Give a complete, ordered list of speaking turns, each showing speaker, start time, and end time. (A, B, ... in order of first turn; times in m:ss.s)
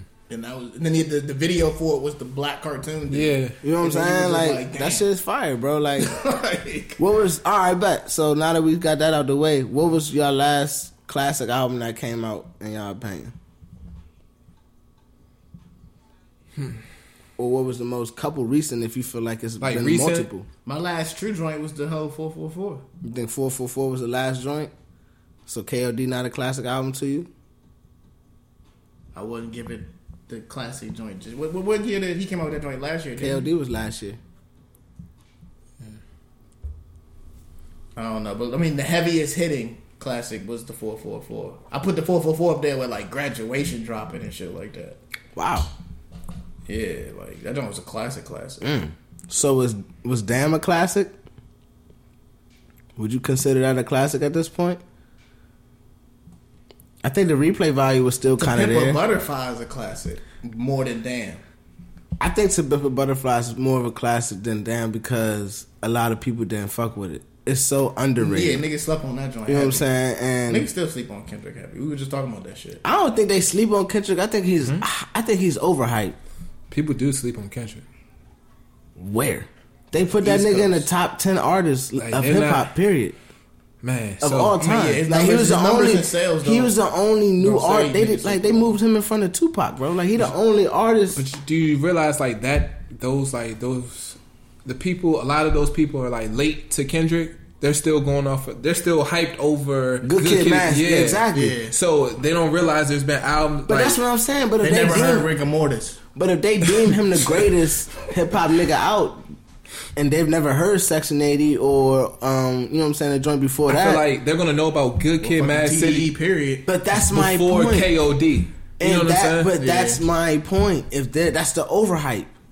0:00.3-0:05.1 A
0:03.1-0:03.6 B
0:03.6-0:06.1 C
0:06.0-0:07.0 A
0:07.0-0:13.3 C
0:17.4-0:20.5 C
0:19.6-0:20.3 B
0:20.6-0:22.8 A
0:23.0-0:24.7 C
0:25.5-0:27.3 C
0:29.1-0:33.5 A
0:33.2-0:34.2 C
0:38.0-0:45.0 A
0:45.3-0:45.7 C
0:46.7-0:48.7 A
0:48.6-0:51.1 C
0:53.0-0:54.8 C
0:57.0-0:59.0 C
0:58.4-1:01.4 A
1:02.2-1:08.6 C
1:08.2-1:09.9 A
1:09.5-1:10.7 C
1:10.5-1:12.8 A
1:12.8-1:16.2 C
1:16.7-1:17.8 B
1:19.0-1:23.2 C
1:20.2-1:20.9 A
1:22.0-1:22.7 B
1:23.8-1:24.6 B
1:24.2-1:31.2 C
1:24.6-1:26.8 A
1:27.4-1:28.8 A
1:31.1-1:44.0 B
1:40.0-1:41.6 C
1:41.3-1:41.7 A
1:43.7-1:45.3 C
1:44.6-1:46.0 A
1:46.1-1:49.3 C
1:50.0-1:54.0 C
1:53.7-1:56.1 B
1:55.2-1:56.6 A
1:56.6-1:57.9 C
1:57.0-1:59.6 B
1:58.8-2:02.3 C
1:59.6-2:00.0 A